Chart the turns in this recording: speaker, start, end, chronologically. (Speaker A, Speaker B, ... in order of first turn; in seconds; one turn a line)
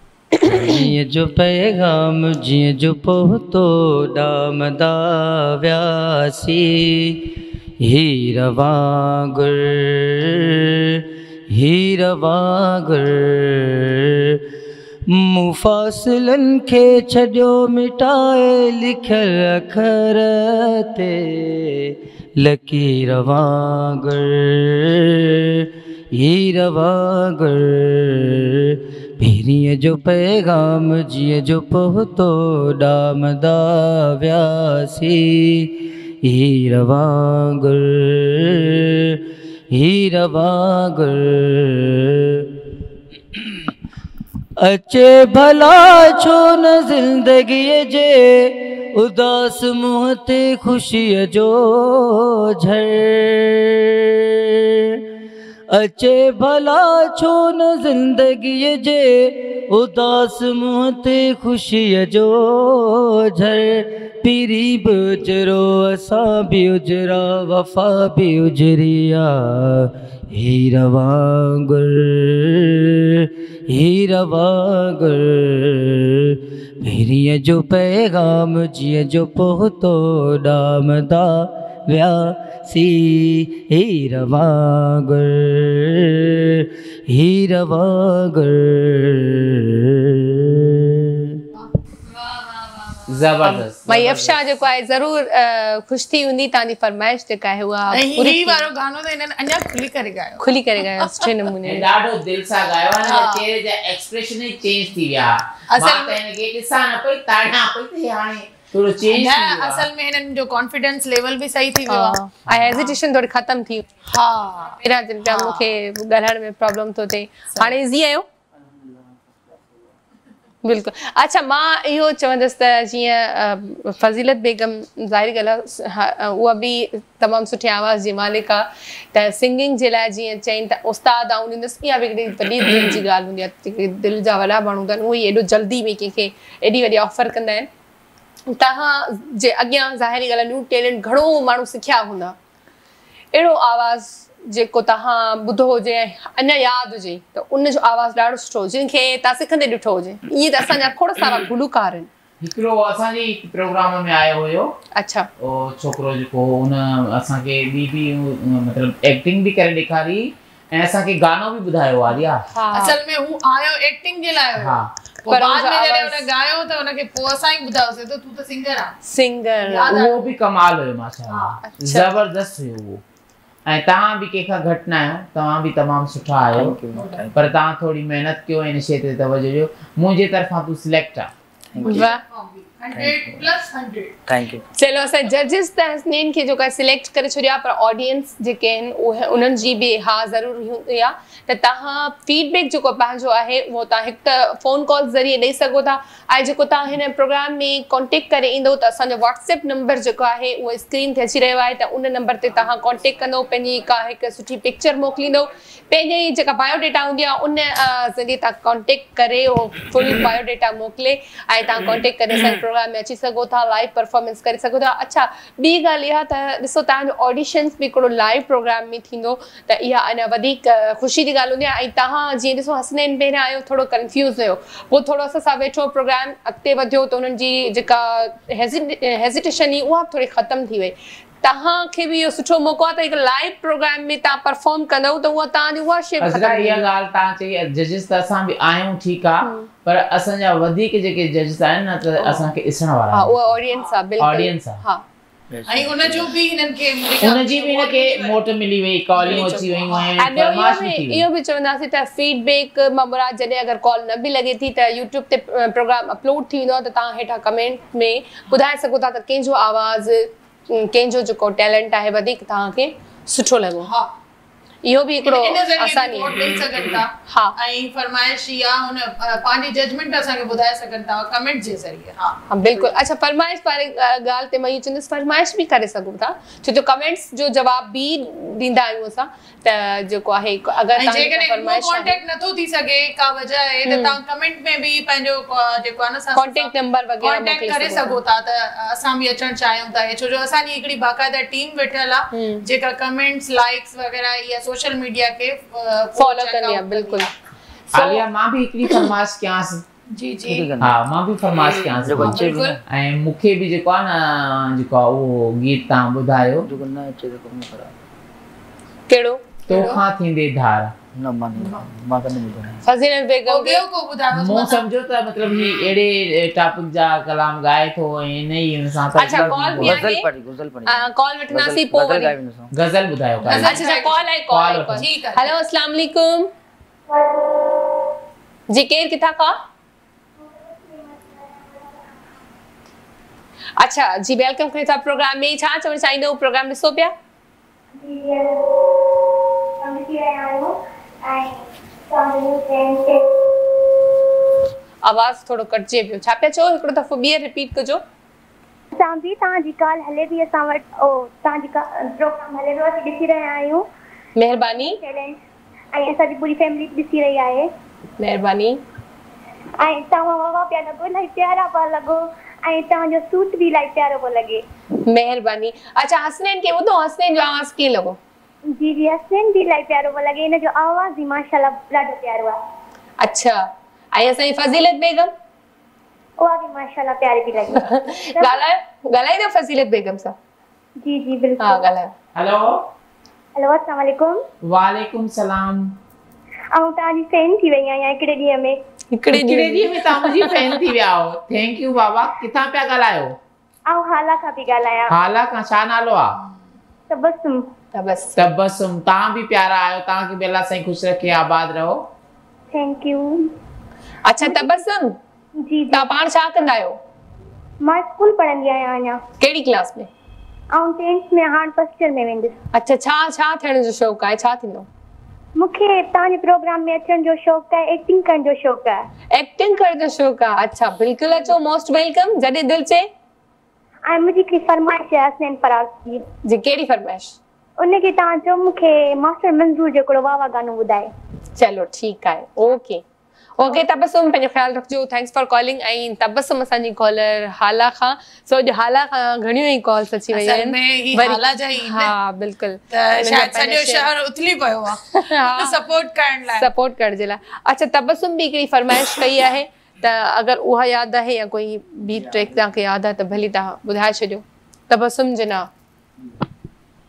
Speaker A: 0.3-0.8
Speaker B: 0.4-14.4
Speaker B: 15.1-42.5
Speaker B: 44.6-55.0
Speaker B: 55.7-91.4
Speaker C: 91.6-93.6
Speaker D: 93.1-94.3
Speaker A: 93.9-98.7
Speaker C: 97.9-101.3
Speaker A: 100.4-101.8
Speaker D: 101.6-109.9
Speaker C: 103.0-103.4
Speaker C: 105.7-106.2
Speaker C: 109.1-112.9
Speaker A: 111.9-113.8
Speaker C: 114.1-115.6
Speaker A: 114.8-118.2
Speaker A: 120.6-137.7
Speaker A: 138.5-142.3
Speaker A: 143.3-152.1
Speaker D: 152.4-154.7
Speaker A: 154.9-155.3
Speaker D: 155.4-162.4
Speaker A: 162.5-162.9
Speaker C: 162.7-169.0
Speaker D: 164.6-164.9
Speaker A: 165.3-166.3
Speaker A: 169.0-169.9
Speaker C: 169.6-170.3
Speaker D: 169.9-173.0
Speaker C: 171.3-171.6
Speaker A: 171.6-172.1
Speaker D: 173.7-176.8
Speaker E: 176.5-177.4
Speaker C: 176.9-177.2
Speaker D: 177.3-181.3
Speaker E: 181.7-182.0
Speaker C: 181.8-184.2
Speaker A: 181.8-182.2
Speaker E: 184.3-184.6
Speaker A: 184.8-236.8
Speaker D: 236.2-243.3
Speaker A: 239.4-239.7
Speaker A: 243.1-245.0
Speaker D: 244.2-244.8
Speaker E: 245.5-246.3
Speaker C: 245.7-248.4
Speaker D: 247.2-251.2
Speaker C: 249.2-250.1
Speaker A: 249.2-249.6
Speaker A: 250.2-263.9
Speaker C: 263.8-264.1
Speaker A: 264.8-266.4
Speaker C: 265.2-272.9
Speaker A: 267.3-267.5
Speaker A: 272.5-282.2
Speaker C: 280.9-297.3
Speaker A: 283.9-284.1
Speaker A: 286.4-288.2
Speaker A: 292.3-292.6
Speaker A: 296.1-297.3
Speaker A: 297.9-298.2
Speaker D: 297.9-299.8
Speaker C: 300.1-300.7
Speaker E: 300.4-301.0
Speaker D: 300.8-306.7
Speaker E: 302.0-302.8
Speaker A: 302.2-302.8
Speaker E: 306.6-307.9
Speaker A: 309.1-309.8
Speaker C: 309.7-310.0
Speaker D: 309.7-310.9
Speaker E: 311.1-312.8
Speaker C: 311.6-311.8
Speaker A: 312.8-313.8
Speaker C: 313.5-314.8
Speaker D: 314.3-320.0
Speaker A: 319.2-320.3
Speaker E: 319.2-322.7
Speaker A: 320.9-322.3
Speaker D: 322.7-323.8
Speaker C: 323.4-324.2
Speaker A: 323.6-326.5
Speaker D: 324.5-325.0
Speaker C: 324.9-325.5
Speaker F: 327.1-327.8
Speaker A: 328.7-329.6
Speaker F: 330.4-332.4
Speaker A: 333.8-337.1
Speaker F: 337.9-339.2
Speaker F: 339.8-343.2
Speaker A: 345.0-348.0
Speaker F: 348.9-353.9
Speaker A: 354.4-355.0
Speaker F: 354.5-355.4
Speaker F: 355.9-357.7
Speaker A: 358.2-358.8
Speaker F: 359.8-364.6
Speaker A: 365.1-368.2
Speaker F: 368.7-372.6
Speaker A: 373.2-375.3
Speaker F: 376.4-378.6
Speaker A: 377.8-380.3
Speaker F: 381.0-381.9
Speaker A: 381.6-382.1
Speaker D: 382.4-382.8
Speaker F: 383.6-384.4
Speaker D: 384.6-385.9
Speaker F: 386.7-388.8
Speaker A: 389.1-390.8
Speaker D: 389.3-393.4
Speaker F: 393.9-395.2
Speaker D: 395.1-396.4
Speaker F: 397.1-397.7
Speaker A: 397.9-398.4
Speaker D: 398.4-402.1
Speaker F: 402.7-403.5
Speaker A: 404.2-405.2
Speaker F: 404.4-404.8
Speaker F: 405.6-406.1
Speaker A: 405.9-407.0
Speaker F: 407.8-409.2
Speaker A: 409.4-410.1
Speaker F: 410.7-412.6
Speaker A: 412.7-414.9
Speaker F: 415.6-419.0
Speaker A: 419.3-423.1
Speaker F: 424.1-426.3
Speaker A: 426.4-427.4
Speaker F: 427.8-431.1
Speaker A: 431.6-433.0
Speaker A: 433.6-444.1
Speaker C: 440.3-442.1
Speaker C: 442.9-446.7
Speaker A: 445.1-445.8
Speaker A: 446.5-455.7
Speaker E: 452.1-452.5